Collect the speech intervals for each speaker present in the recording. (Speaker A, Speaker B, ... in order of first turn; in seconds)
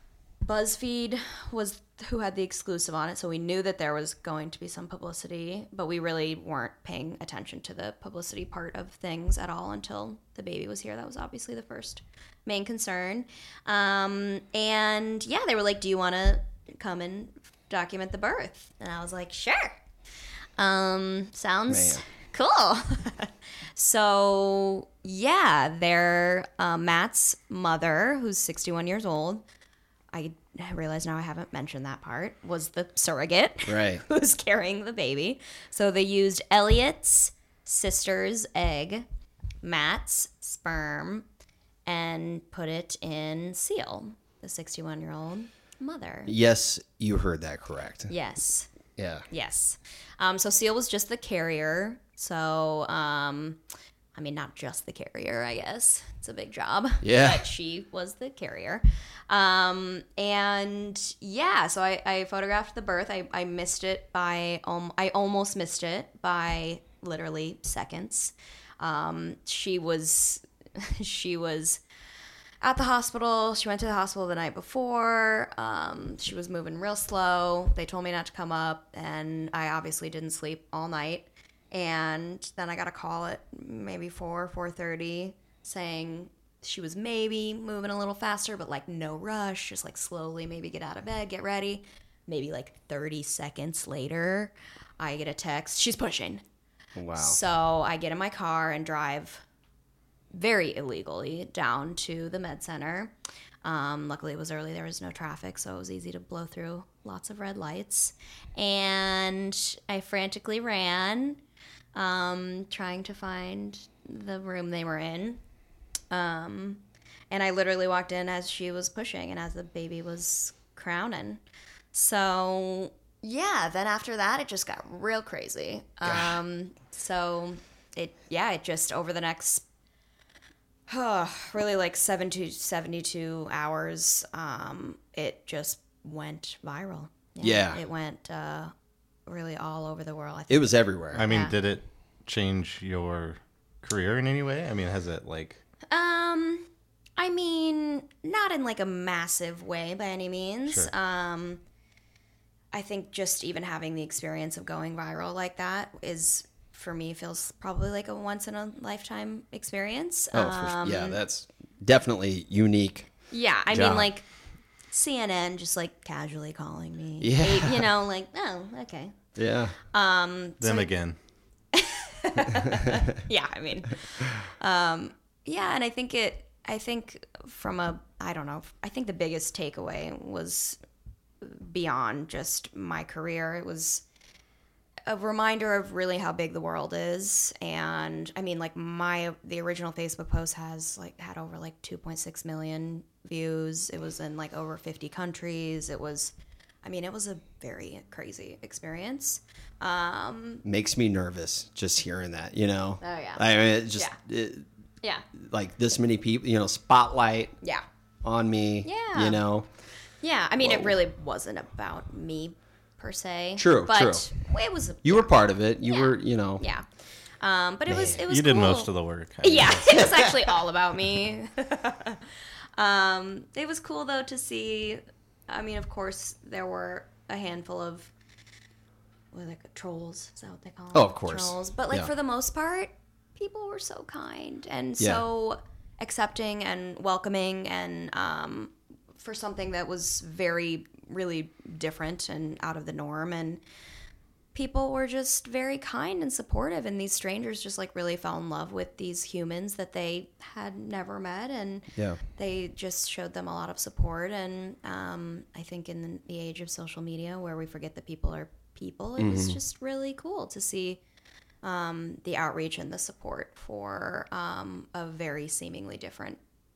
Speaker A: 0.4-19.8, 20.6-29.4, 30.1-39.0, 39.6-41.2, 41.9-46.3, 48.1-48.7, 49.3-53.6, 54.1-71.8, 72.6-96.4, 97.1-99.4, 100.3-103.1, 103.6-111.4, 111.9-115.4, 116.1-121.4, 121.9-129.6, 130.9-138.7, 139.2-141.5, 145.9-146.7, 147.2-151.6, 152.7-161.2, 163.3-164.2, 164.9-169.2, 169.9-170.9, 171.7-180.8, 181.4-184.0, 185.1-196.3, 196.8-200.6, 203.0-204.2, 208.8-209.4, 210.2-216.9, 217.4-218.9, 219.4-228.1, 229.3-243.6, 244.5-261.0, 261.6-266.4
Speaker B: 21.7-22.0, 33.7-34.0, 46.2-48.1, 49.0-49.2, 57.0-57.4, 97.0-97.4, 126.0-126.4, 137.4-137.8, 140.5-141.2, 160.3-163.1, 163.7-164.1, 167.2-167.9, 169.3-169.8, 172.5-173.0, 200.6-204.7, 205.3-207.6, 208.2-209.7, 210.6-210.9, 213.6-214.3, 215.0-216.6, 217.9-218.2, 219.7-220.5, 230.9-232.1, 251.9-252.2, 259.2-259.6
Speaker C: 141.1-145.6, 170.6-171.2, 218.3-219.8